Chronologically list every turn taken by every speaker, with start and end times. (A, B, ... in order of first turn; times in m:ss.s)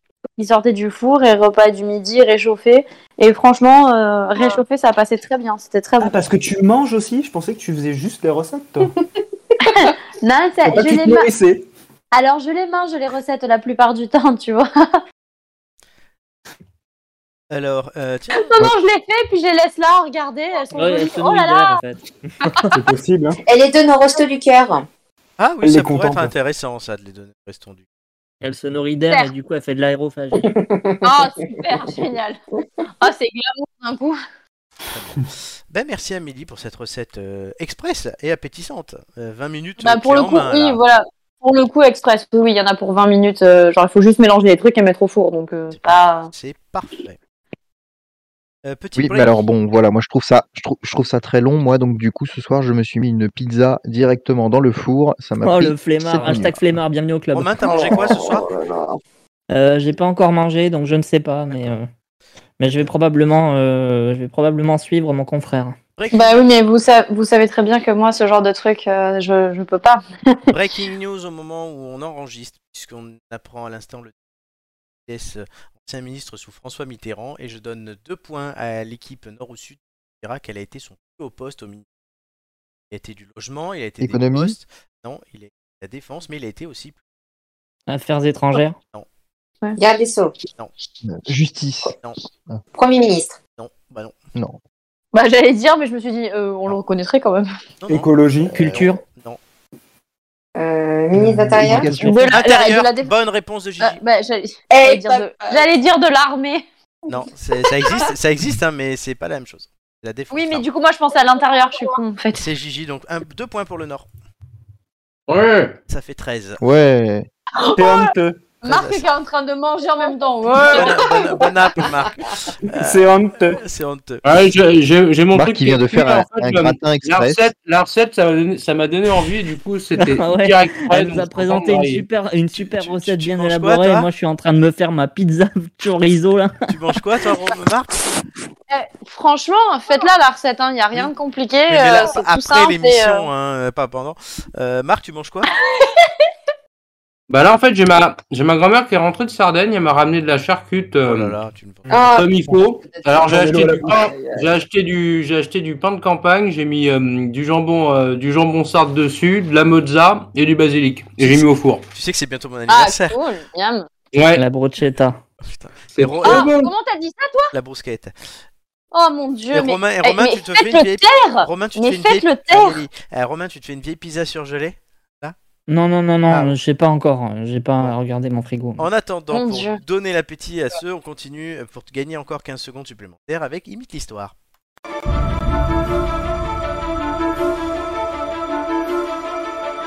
0:00.4-0:06.2 A
0:06.0-0:08.9 B
0:09.6-0:11.3 A
0:10.6-0:11.7 B
0:12.1-0:14.7 A
0:17.5-0:18.5 C
0:18.3-0:21.8 A
0:20.7-0:22.6 D
0:22.4-0:22.7 A
0:22.7-0:23.4 B
0:23.4-0:24.8 E
0:25.4-0:27.8 C
0:25.6-0:26.3 B
0:28.4-0:30.5 D
0:30.4-0:31.7 E
0:31.0-0:32.4 A
0:33.0-0:34.2 A
0:34.9-0:40.8 C
0:39.8-0:46.3 A
0:45.7-0:47.2 C
0:48.6-0:49.4 C
0:49.0-0:56.6 F
0:55.4-0:57.5 D
0:57.3-0:58.5 C
0:57.6-0:59.0 E
0:59.5-1:01.9 D
1:02.6-1:05.8 D
1:06.0-1:06.5 C
1:06.1-1:10.5 A
1:10.5-1:14.1 C
1:15.1-1:21.8 C
1:22.9-1:27.0 C
1:24.0-1:24.6 F
1:27.9-1:28.8 D
1:29.8-1:30.4 E
1:31.0-1:31.9 F
1:32.7-1:33.4 E
1:33.6-1:34.1 C
1:35.1-1:37.5 A
1:37.8-1:39.4 C
1:37.9-1:38.5 B
1:38.5-1:39.0 D
1:40.6-1:41.9 E
1:41.2-1:42.3 F
1:41.9-1:43.1 A
1:42.3-1:44.0 C
1:43.8-1:46.6 A
1:44.7-1:45.7 E
1:47.1-1:50.6 C
1:50.3-1:52.4 A
1:52.3-1:54.1 C
1:55.3-1:55.8 G
1:55.9-1:56.6 C
1:56.6-1:57.3 F
1:57.5-1:58.1 A
1:57.7-1:58.4 B
1:58.6-2:01.5 A
1:58.6-1:59.1 C
2:00.6-2:04.2 C
2:02.8-2:03.6 B
2:04.2-2:12.0 G
2:05.3-2:07.5 F
2:10.0-2:16.6 D
2:12.5-2:14.1 C
2:16.7-2:18.0 C
2:18.7-2:23.3 A
2:21.7-2:25.5 C
2:25.5-2:26.2 A
2:27.3-2:31.4 G
2:31.0-2:32.2 C
2:31.9-2:34.5 E
2:32.1-2:41.9 G
2:33.3-2:34.0 B
2:41.2-2:43.2 C
2:42.7-2:43.9 A
2:44.1-2:44.4 G
2:44.4-2:45.2 D
2:45.4-2:46.5 C
2:45.9-2:46.7 G
2:46.2-2:47.5 A
2:47.5-2:48.1 C
2:48.9-2:52.8 A
2:49.5-2:55.4 C
2:55.7-2:58.9 D
2:56.3-2:56.5 C
2:58.8-3:04.3 C
2:59.3-2:59.8 A